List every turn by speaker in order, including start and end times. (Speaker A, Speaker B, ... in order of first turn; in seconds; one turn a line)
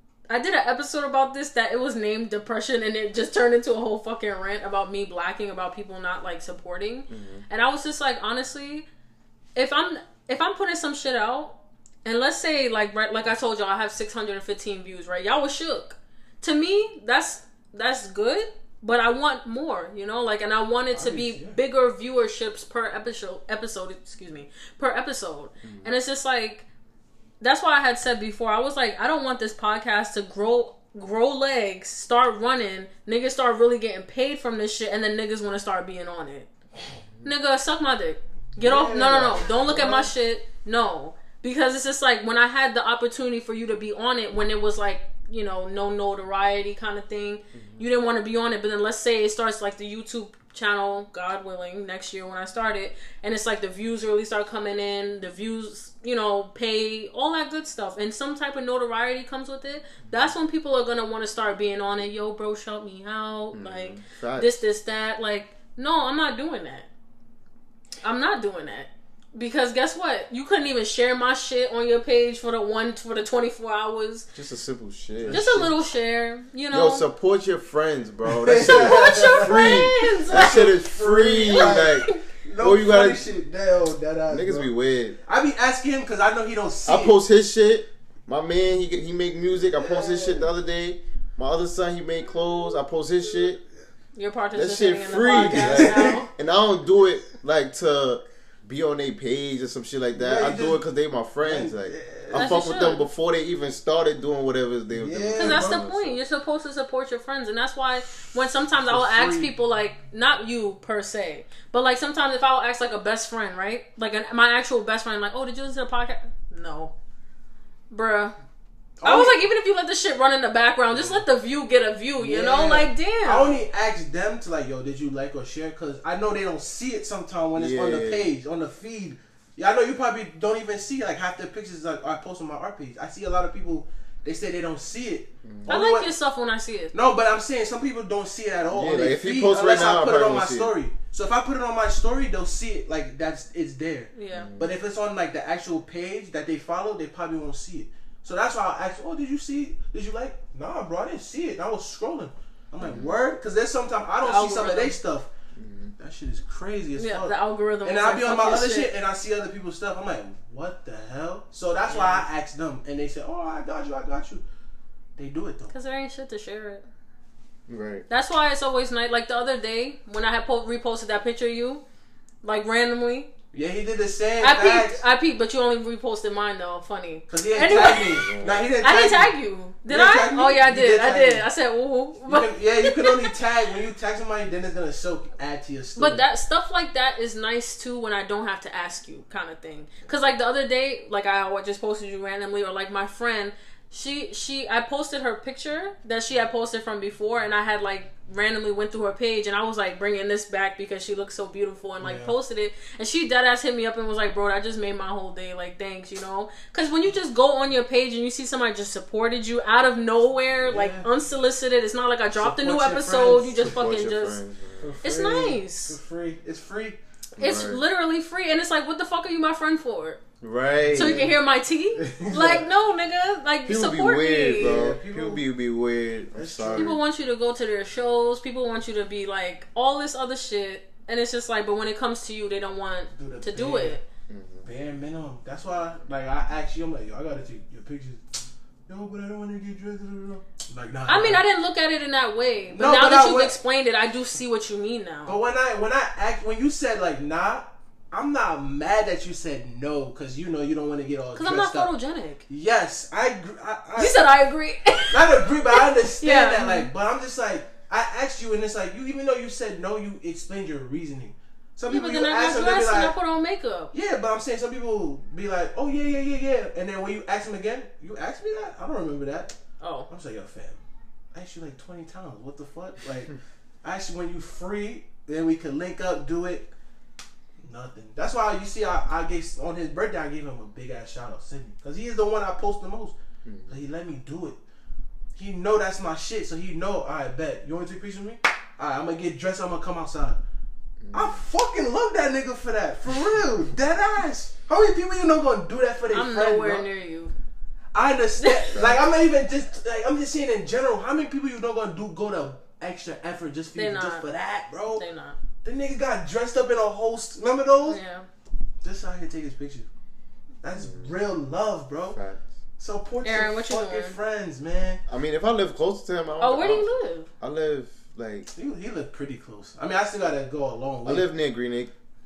Speaker A: 0.3-8.9
Speaker B: 7.1-7.4
Speaker A: 9.5-26.6
Speaker C: 20.9-21.6
Speaker B: 25.6-25.9
Speaker A: 27.4-36.5
Speaker A: 37.2-66.9
Speaker C: 38.5-40.1
Speaker B: 47.5-47.8
Speaker B: 63.5-64.6
Speaker A: 68.0-74.3
Speaker B: 74.3-75.5
Speaker C: 75.2-75.7
Speaker A: 75.3-77.1
Speaker B: 76.7-83.2
Speaker C: 78.2-84.7
Speaker A: 78.7-80.7
Speaker A: 81.4-82.2
Speaker B: 84.3-85.2
Speaker C: 85.2-87.2
Speaker B: 86.8-93.6
Speaker C: 89.7-90.5
Speaker A: 94.1-96.3
Speaker B: 94.5-106.2
Speaker C: 95.2-96.3
Speaker C: 100.1-100.8
Speaker C: 101.4-102.6
Speaker A: 102.3-103.0
Speaker C: 104.9-105.8
Speaker A: 105.3-116.9
Speaker C: 108.7-109.5
Speaker A: 117.9-118.3
Speaker C: 119.0-119.5
Speaker A: 119.0-123.6
Speaker C: 122.2-136.1
Speaker B: 127.5-128.3
Speaker B: 135.4-135.8
Speaker A: 135.7-136.9
Speaker C: 136.9-155.3
Speaker B: 138.7-140.7
Speaker A: 144.1-144.5
Speaker B: 144.3-144.7
Speaker B: 152.8-153.2
Speaker A: 154.2-155.0
Speaker B: 155.6-155.9
Speaker C: 156.0-164.4
Speaker A: 157.0-158.9
Speaker A: 161.8-162.3
Speaker C: 165.2-165.7
Speaker A: 165.7-166.8
Speaker B: 167.7-168.1
Speaker A: 168.1-171.8
Speaker A: 172.4-173.3
Speaker C: 173.5-175.0
Speaker A: 174.4-183.3
Speaker C: 177.3-181.5
Speaker B: 177.7-178.7
Speaker C: 182.2-186.2
Speaker A: 185.9-214.4
Speaker C: 202.0-202.3
Speaker C: 210.6-211.1
Speaker C: 212.4-213.6
Speaker B: 213.6-214.9
Speaker C: 214.8-217.0
Speaker A: 215.0-216.0
Speaker B: 217.4-217.8
Speaker A: 217.4-220.2
Speaker B: 220.4-221.3
Speaker C: 220.7-221.4
Speaker A: 220.9-224.8
Speaker C: 222.0-222.6
Speaker B: 223.7-227.0
Speaker C: 224.5-225.4
Speaker C: 226.3-226.9
Speaker A: 226.7-234.0
Speaker C: 233.1-234.0
Speaker B: 234.3-234.7
Speaker C: 234.6-238.2
Speaker C: 238.9-241.4
Speaker A: 241.1-245.4
Speaker C: 242.7-243.6
Speaker C: 245.3-251.9
Speaker A: 251.3-252.4
Speaker C: 252.5-254.3
Speaker A: 254.0-256.9
Speaker C: 255.1-263.1
Speaker A: 261.9-263.9
Speaker C: 263.9-269.6
Speaker A: 269.8-270.1
Speaker C: 270.1-270.8
Speaker C: 271.3-276.7
Speaker C: 277.6-283.1
Speaker B: 283.4-283.7
Speaker C: 283.7-284.6
Speaker C: 285.3-290.4
Speaker B: 291.0-291.4
Speaker C: 291.1-296.9
Speaker A: 296.1-297.3
Speaker C: 297.9-305.0
Speaker A: 298.4-298.7
Speaker A: 303.7-304.2
Speaker A: 304.9-305.4
Speaker C: 305.6-308.0
Speaker A: 307.9-308.3
Speaker C: 308.8-309.9
Speaker C: 310.6-312.2
Speaker B: 310.8-311.1
Speaker B: 312.1-312.4
Speaker C: 312.8-315.0
Speaker A: 313.2-314.2
Speaker B: 315.1-316.9
Speaker A: 316.4-317.3
Speaker B: 317.4-318.5
Speaker C: 318.5-321.3
Speaker B: 321.0-321.9